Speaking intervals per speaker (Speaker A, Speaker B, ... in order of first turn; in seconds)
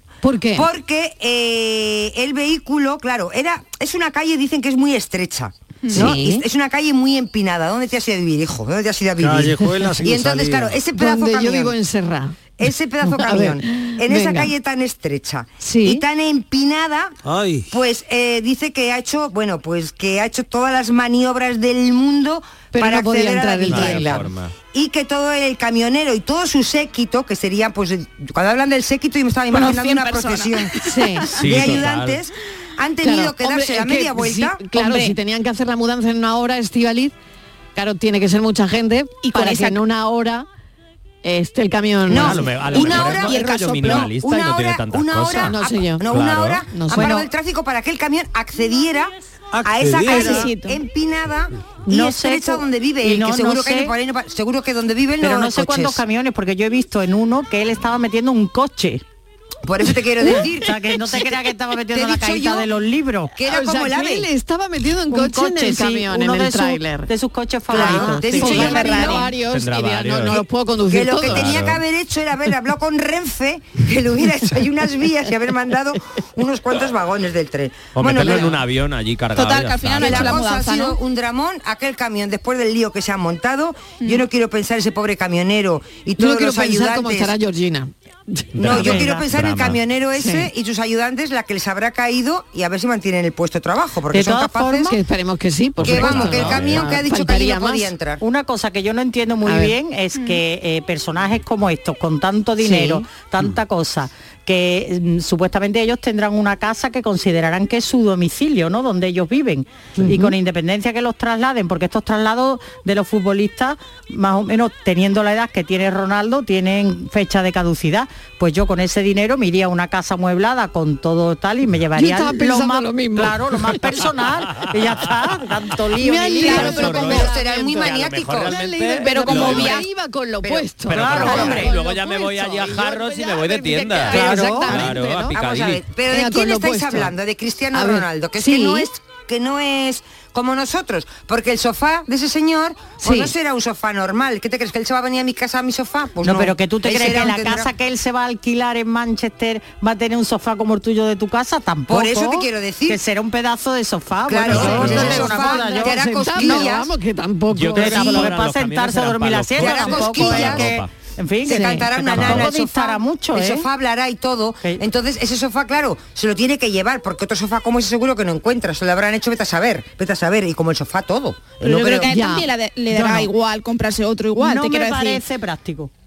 Speaker A: 0.2-0.7, 5.9-6.4, 10.9-14.5, 15.6-16.0, 22.7-24.2, 30.8-31.3, 33.0-37.1, 37.7-40.5, 41.2-42.5, 45.4-46.1, 46.7-47.2, 63.5-67.1, 67.7-71.6, 86.2-89.1, 90.2-90.5, 94.8-97.9, 99.4-99.7, 102.6-103.0, 110.0-110.3, 121.9-123.8, 126.0-135.4, 136.1-137.1, 137.7-138.9, 143.0-143.3, 154.5-158.3, 161.5-162.3, 172.0-173.3
Speaker B: 0.5-11.7, 12.6-17.1, 17.7-30.7, 31.3-34.6, 42.1-56.0, 59.6-61.4, 61.9-62.7, 63.3-64.3, 67.7-69.3, 70.9-78.5, 79.9-87.3, 88.5-95.0, 95.8-98.2, 126.5-128.5, 130.4-131.7, 134.9-147.7, 151.9-153.0, 154.2-156.9, 159.6-160.8, 161.4-172.1
Speaker C: 5.8-6.1, 29.5-30.9, 34.7-35.1, 39.2-39.8, 42.7-44.1, 50.1-50.8, 68.7-69.2, 79.3-81.0, 100.1-100.4, 126.3-127.0, 129.0-129.8, 171.6-175.2
Speaker D: 9.2-10.8, 17.2-17.7, 49.5-50.5
Speaker E: 23.7-24.5, 31.4-32.2, 42.1-46.6, 69.4-70.4, 71.2-71.8, 77.9-80.4, 88.6-89.8, 95.8-96.8, 126.4-129.8, 130.9-135.8, 154.5-155.4, 157.5-160.9
Speaker F: 46.9-47.2, 51.9-53.9, 55.2-59.0, 60.2-63.3, 65.1-69.1, 88.8-89.2, 94.1-94.9, 98.2-126.9, 130.9-131.7, 134.1-134.7, 146.2-156.7, 157.7-163.7, 174.4-175.9